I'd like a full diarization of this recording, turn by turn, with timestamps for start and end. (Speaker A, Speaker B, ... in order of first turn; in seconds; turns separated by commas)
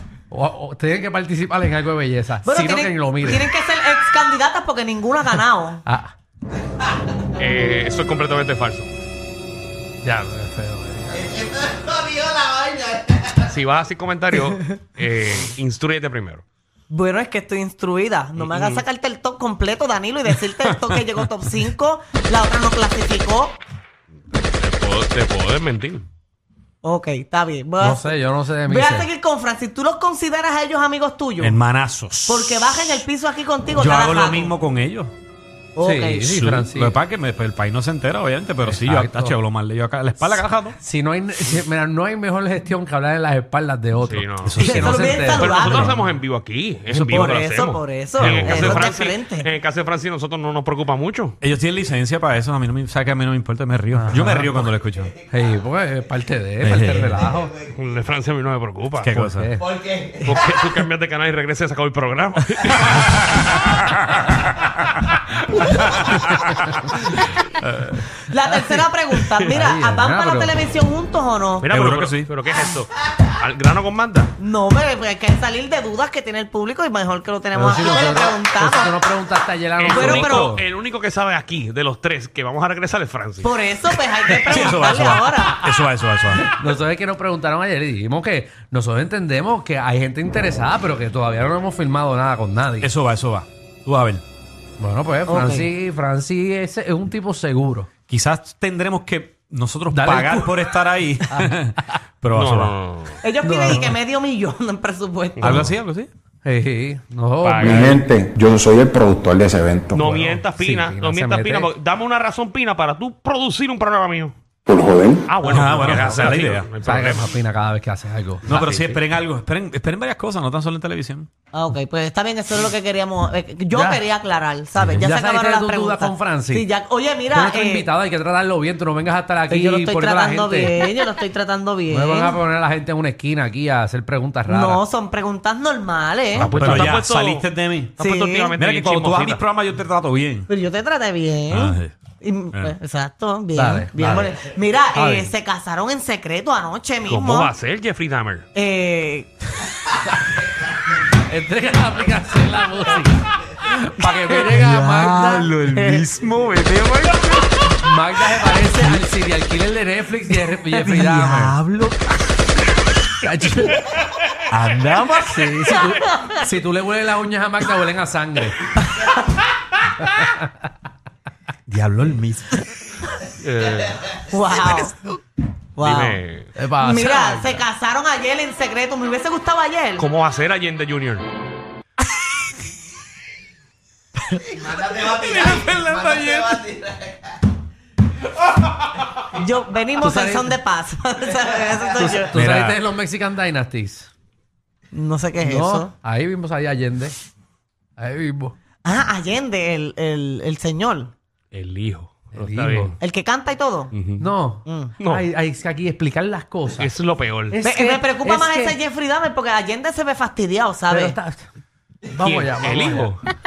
Speaker A: 0.3-3.5, Speaker B: 2.4-5.8, Speaker A: 5.8-6.1, Speaker C: 7.4-8.9, Speaker A: 10.0-11.2, Speaker C: 13.3-16.4, Speaker B: 16.9-23.6, Speaker C: 18.4-18.8, Speaker C: 24.3-26.1, Speaker B: 26.8-28.1, Speaker A: 27.8-29.1, Speaker B: 28.6-31.6, Speaker D: 31.4-33.0, Speaker B: 32.3-34.5, Speaker D: 33.8-35.1, Speaker B: 35.8-36.4, Speaker A: 35.8-37.0, Speaker D: 36.3-40.8, Speaker A: 38.6-39.4, Speaker A: 40.8-45.8, Speaker C: 44.0-44.6, Speaker D: 44.4-45.9, Speaker B: 44.6-46.0, Speaker C: 45.3-51.4, Speaker D: 46.9-48.9, Speaker B: 47.1-49.5, Speaker D: 51.4-55.1, Speaker A: 53.9-54.7, Speaker A: 55.3-57.5, Speaker D: 56.6-57.2, Speaker C: 57.7-59.1, Speaker D: 59.0-59.5, Speaker A: 59.1-59.8, Speaker C: 60.2-63.4, Speaker D: 63.6-64.7, Speaker D: 65.7-67.0, Speaker D: 67.6-68.0, Speaker B: 68.2-71.7, Speaker A: 69.4-70.6, Speaker C: 71.6-74.3, Speaker D: 71.6-72.3, Speaker B: 74.4-79.0, Speaker A: 77.5-80.6, Speaker C: 79.8-83.5, Speaker B: 79.9-80.5, Speaker B: 83.4-85.6, Speaker D: 84.4-86.5, Speaker A: 86.3-92.9, Speaker D: 92.8-94.2, Speaker A: 94.8-97.9, Speaker B: 95.3-95.7, Speaker D: 98.1-102.8, Speaker A: 99.9-100.7, Speaker A: 101.3-101.6, Speaker C: 102.3-103.2, Speaker B: 103.2-105.6, Speaker A: 103.4-104.0, Speaker C: 105.4-105.7, Speaker D: 105.4-106.1, Speaker A: 106.4-108.0, Speaker C: 107.4-108.0, Speaker E: 107.6-110.0, Speaker C: 109.9-114.3, Speaker A: 110.1-111.7, Speaker E: 114.7-115.2, Speaker C: 115.3-117.3, Speaker D: 115.4-116.7, Speaker A: 116.8-118.6, Speaker D: 118.5-121.3, Speaker C: 118.5-119.0, Speaker B: 121.5-127.9, Speaker A: 123.7-124.0, Speaker D: 124.8-125.1, Speaker A: 125.0-126.7, Speaker A: 127.3-130.8, Speaker B: 129.5-132.4, Speaker A: 131.9-134.8, Speaker B: 134.5-136.9, Speaker D: 136.3-138.0, Speaker C: 136.3-139.4, Speaker B: 138.0-138.6, Speaker D: 138.6-140.5, Speaker B: 140.5-147.5, Speaker D: 141.5-141.9, Speaker A: 143.6-144.3, Speaker A: 144.9-145.3, Speaker C: 147.0-148.5, Speaker B: 148.5-149.3, Speaker A: 151.1-155.5, Speaker D: 154.0-157.8, Speaker B: 155.8-156.1, Speaker A: 157.8-161.6, Speaker D: 158.7-159.1, Speaker D: 160.6-162.1, Speaker A: 163.2-163.9, Speaker D: 164.5-165.8, Speaker A: 165.2-168.6, Speaker A: 170.1-170.4, Speaker D: 171.7-172.6, Speaker C: 173.4-174.1, Speaker B: 174.3-174.9, Speaker B: 175.8-176.2, Speaker C: 175.8-176.5, Speaker A: 176.6-177.6, Speaker B: 176.8-180.1, Speaker C: 180.0-181.2, Speaker D: 184.8-186.9, Speaker B: 189.2-192.3, Speaker A: 190.0-190.5, Speaker A: 191.9-194.1, Speaker D: 192.3-192.8, Speaker B: 194.9-195.9, Speaker A: 195.4-197.2, Speaker A: 198.0-198.5, Speaker B: 198.8-201.1, Speaker C: 201.5-202.9, Speaker A: 202.3-203.0, Speaker B: 203.0-203.9, Speaker C: 203.9-204.2, Speaker A: 204.2-206.9, Speaker B: 204.6-204.9, Speaker C: 205.0-205.2, Speaker C: 206.8-207.6, Speaker A: 207.5-208.8, Speaker B: 207.6-211.2, Speaker A: 210.9-211.5, Speaker A: 212.1-213.1, Speaker C: 212.2-213.2